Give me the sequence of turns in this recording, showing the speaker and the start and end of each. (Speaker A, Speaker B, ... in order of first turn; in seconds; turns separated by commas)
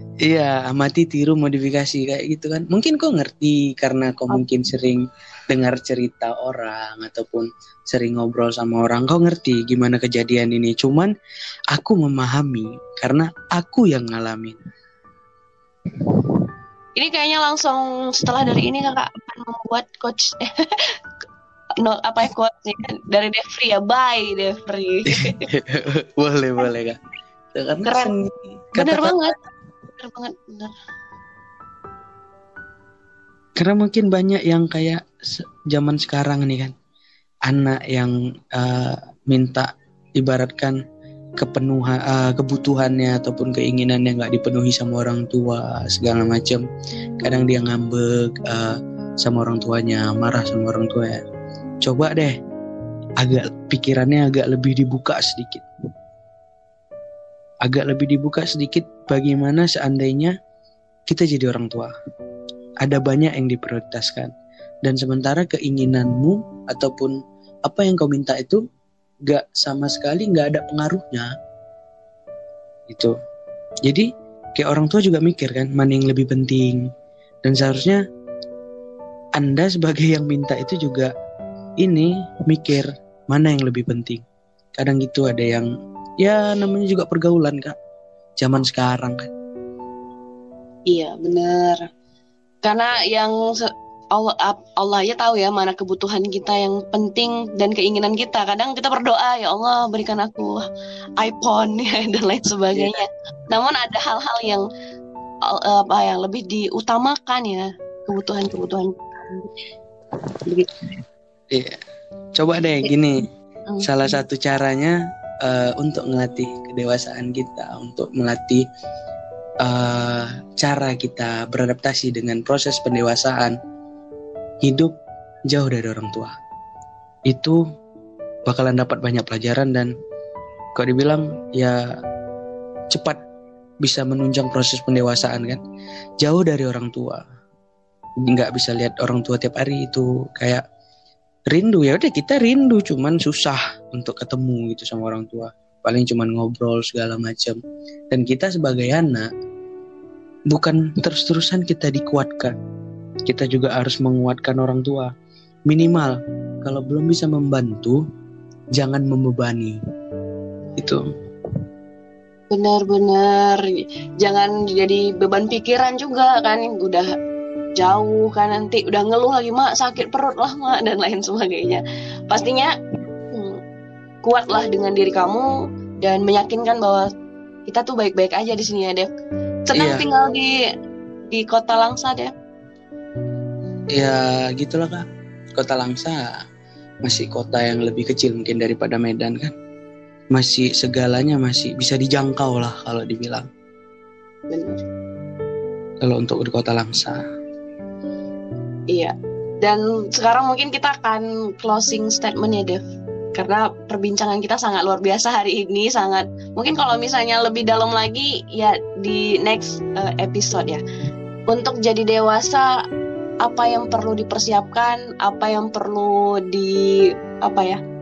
Speaker A: 0.2-11.1, Speaker A: 11.7-14.6, Speaker B: 17.0-21.0, Speaker B: 21.8-25.4, Speaker A: 25.1-27.0, Speaker A: 27.5-29.2, Speaker B: 27.9-28.1, Speaker B: 28.8-29.4, Speaker B: 29.9-30.7, Speaker A: 33.6-36.7, Speaker A: 37.5-40.8, Speaker A: 41.4-46.6, Speaker A: 47.2-51.2, Speaker A: 51.8-52.4, Speaker A: 53.2-55.6, Speaker A: 57.6-60.4, Speaker A: 61.1-61.9, Speaker A: 62.8-64.3, Speaker A: 64.8-68.6, Speaker A: 69.3-71.3, Speaker A: 72.9-73.2, Speaker A: 73.9-76.9, Speaker A: 77.5-78.0, Speaker A: 79.4-81.1, Speaker A: 81.8-84.2, Speaker A: 84.8-85.7, Speaker A: 86.2-87.8, Speaker A: 88.4-89.3, Speaker B: 90.9-91.9, Speaker B: 92.6-100.7, Speaker B: 101.2-104.7, Speaker A: 102.8-103.0, Speaker B: 105.5-109.5, Speaker B: 110.5-110.7, Speaker A: 111.5-111.8, Speaker A: 112.3-113.2, Speaker A: 113.8-118.7, Speaker A: 119.6-123.6, Speaker A: 124.6-124.9, Speaker A: 125.5-126.3, Speaker A: 127.3-127.6, Speaker A: 128.5-129.9, Speaker A: 130.8-131.9, Speaker A: 132.9-133.2, Speaker A: 133.8-135.6, Speaker A: 136.2-137.2, Speaker A: 138.2-140.7, Speaker A: 141.5-147.6, Speaker A: 148.1-149.3, Speaker A: 150.5-152.5, Speaker A: 153.3-155.1, Speaker A: 155.7-158.0, Speaker A: 158.8-159.8, Speaker A: 160.8-161.1, Speaker B: 162.5-167.1, Speaker B: 167.8-172.7, Speaker B: 173.3-173.6, Speaker B: 174.2-177.1, Speaker B: 177.7-179.1, Speaker B: 179.7-180.6, Speaker A: 179.8-180.1, Speaker B: 181.3-182.3, Speaker A: 183.9-186.3, Speaker A: 187.0-189.5, Speaker A: 190.3-193.5, Speaker B: 194.5-194.8, Speaker A: 196.0-197.2, Speaker B: 198.9-202.8, Speaker B: 203.3-210.8, Speaker B: 211.5-212.8, Speaker B: 213.4-217.8